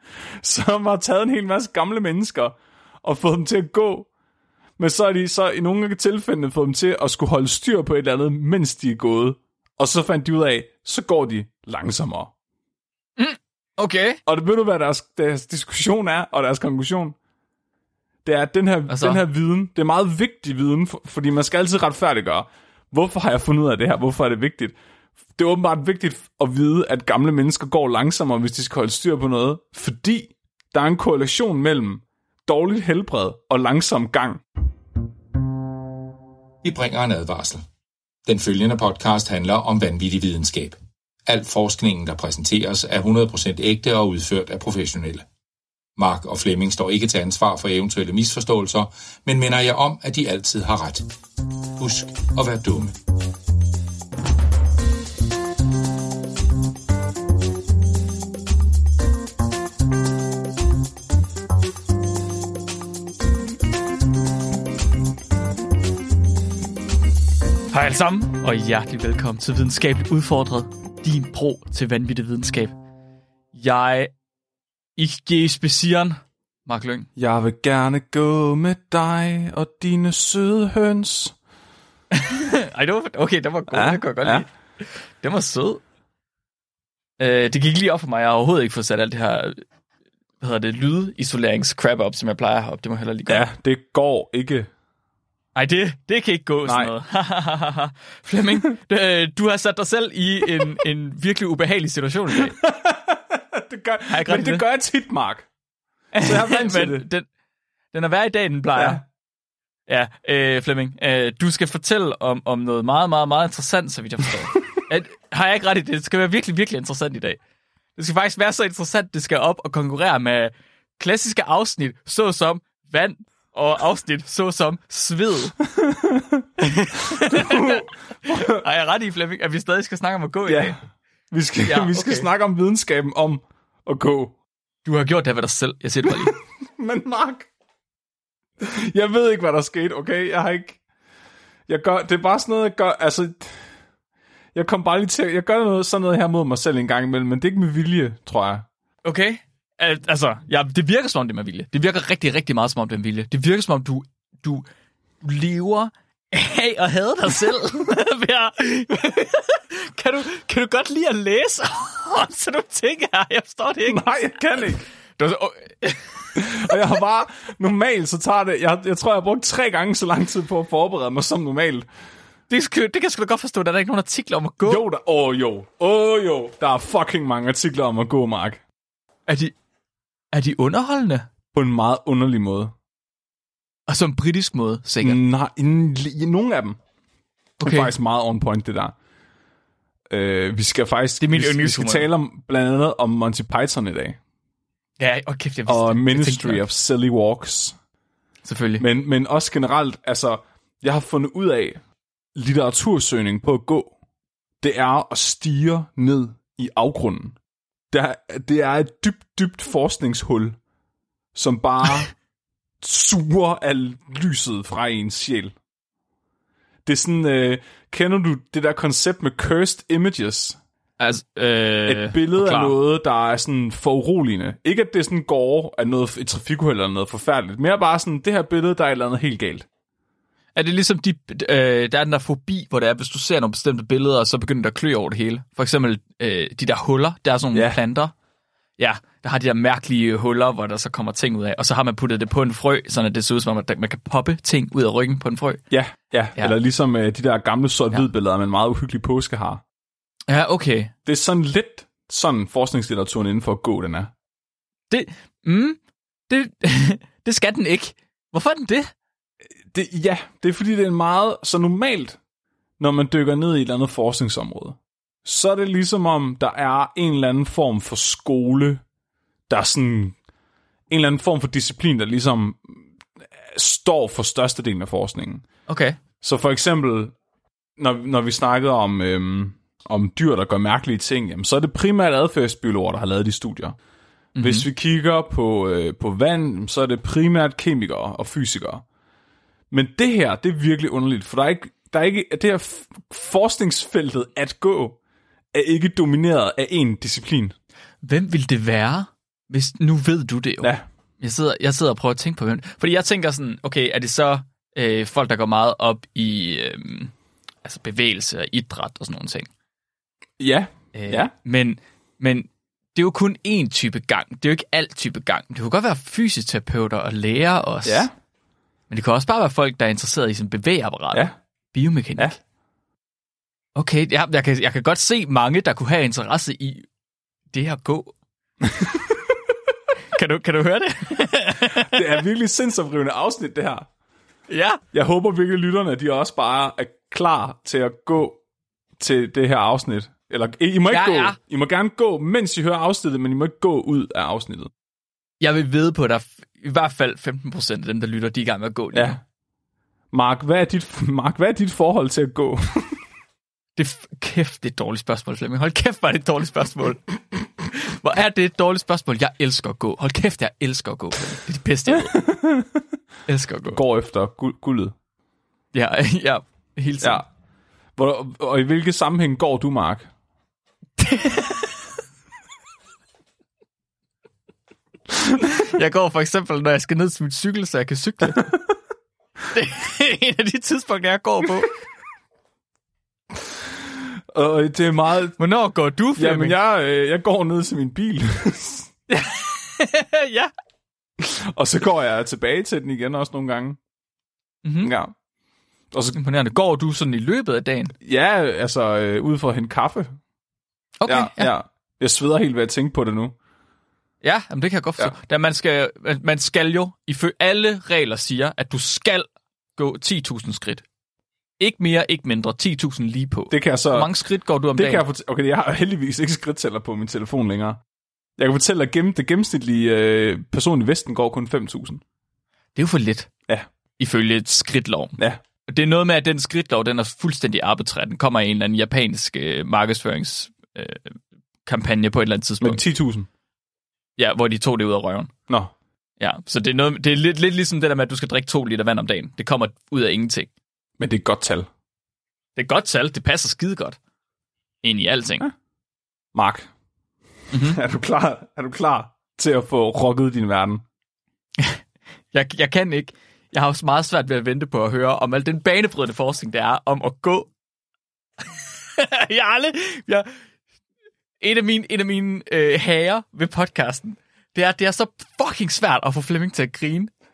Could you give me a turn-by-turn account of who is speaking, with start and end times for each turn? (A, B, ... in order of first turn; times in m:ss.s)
0:00.4-0:04.1 A
0:04.8-0:12.3 A
0:13.2-0:14.2 B
0:14.2-0:17.2 A
0:18.2-0:24.7 A
0:18.9-0:19.2 B
0:25.4-0:34.4 A
0:36.6-0:37.6 C
0:38.2-0:45.2 C
0:46.0-0:51.0 C
0:51.8-0:53.0 C
1:07.7-1:12.7 B
1:13.5-1:14.1 B
1:15.0-1:17.1 B
1:17.2-1:21.3 A
1:22.1-1:24.5 B
1:23.7-1:24.4 A
1:25.2-1:25.8 B
1:27.2-1:29.6 B
1:30.4-1:33.4 B
1:33.3-1:34.7 A
1:35.6-1:42.6 B
1:36.6-1:36.9 A
1:42.6-1:45.5 A
1:44.1-1:44.6 B
1:46.1-1:47.2 B
1:46.2-1:47.0 A
1:47.9-1:49.0 B
1:48.7-1:49.0 A
1:49.9-1:57.4 B
1:58.0-2:05.6 B
2:05.7-2:08.6 A
2:06.6-2:10.7 B
2:10.4-2:10.8 A
2:11.3-2:14.3 A
2:11.6-2:12.3 B
2:14.8-2:16.3 B
2:16.2-2:17.5 A
2:18.6-2:20.8 A
2:21.7-2:23.6 A
2:24.5-2:28.6 A
2:29.0-2:34.6 B
2:35.2-2:44.0 B
2:43.8-2:44.8 A
2:45.2-2:46.7 B
2:46.3-2:51.8 A
2:52.5-2:54.8 B
2:54.6-2:58.6 A
2:59.3-2:59.5 B
3:00.3-3:01.3 B
3:01.5-3:02.7 A
3:03.9-3:05.2 B
3:05.0-3:06.8 A
3:07.6-3:07.9 B
3:07.6-3:08.9 A
3:10.1-3:14.2 A
3:11.2-3:12.1 B
3:15.0-3:16.6 B
3:15.7-3:17.7 A
3:18.4-3:18.8 B
3:18.8-3:21.8 A
3:22.3-3:23.9 A
3:24.6-3:27.4 A
3:27.9-3:30.6 A
3:31.3-3:32.1 A
3:32.8-3:35.5 A
3:36.8-3:40.6 A
3:41.0-3:42.8 B
3:41.8-3:49.6 A
3:50.5-3:58.1 B
3:57.5-3:57.8 A
3:58.8-4:05.6 B
4:05.7-4:09.6 A
4:10.3-4:10.9 B
4:11.0-4:14.1 A
4:14.9-4:18.9 B
4:19.7-4:22.2 A
4:22.8-4:28.8 A
4:29.5-4:30.1 A
4:30.9-4:32.8 A
4:33.5-4:35.4 A
4:35.7-4:36.0 B
4:36.2-4:37.1 A
4:37.8-4:43.8 A
4:44.4-4:44.6 B
4:44.4-4:48.8 A
4:49.7-4:55.0 A
4:55.5-4:57.5 A
4:58.0-5:07.1 B
5:07.6-5:09.5 B
5:10.4-5:11.3 A
5:10.9-5:18.1 B
5:17.8-5:18.1 A
5:18.9-5:22.4 B
5:23.8-5:26.8 B
5:27.5-5:28.1 B
5:28.6-5:29.3 A
5:30.1-5:32.1 B
5:31.7-5:33.9 A
5:34.5-5:34.8 B
5:34.9-5:38.4 A
5:39.0-5:44.7 A
5:40.9-5:41.4 B
5:45.4-5:49.1 B
5:48.9-5:49.2 A
5:50.1-5:52.9 A
5:53.8-6:02.3 B
6:02.1-6:02.8 A
6:03.3-6:03.8 B
6:03.7-6:04.9 A
6:05.7-6:07.2 B
6:08.0-6:10.1 A
6:11.0-6:11.7 B
6:15.3-6:18.5 B
6:19.5-6:21.7 B
6:24.3-6:25.4 A
6:25.4-6:26.6 B
6:26.2-6:29.0 A
6:29.1-6:30.5 B
6:31.2-6:33.8 A
6:34.6-6:34.9 B
6:34.8-6:35.1 A
6:35.9-6:36.2 A
6:36.2-6:37.9 B
6:38.0-6:40.2 A
6:41.0-6:41.5 B
6:41.0-6:43.3 A
6:44.2-6:50.8 B
6:51.6-6:55.0 B
6:53.5-6:54.1 A
6:54.7-6:57.8 A
6:58.4-7:02.0 A
7:02.7-7:03.3 B
7:04.0-7:11.1 B
7:11.6-7:12.8 B
7:12.6-7:13.3 A
7:14.2-7:15.3 B
7:16.2-7:20.5 B
7:21.0-7:21.7 A
7:22.6-7:24.0 B
7:24.8-7:25.4 B
7:26.3-7:26.7 A
7:27.5-7:27.8 B
7:27.6-7:30.8 A
7:32.3-7:37.5 B
7:38.5-7:40.3 B
7:41.4-7:47.1 B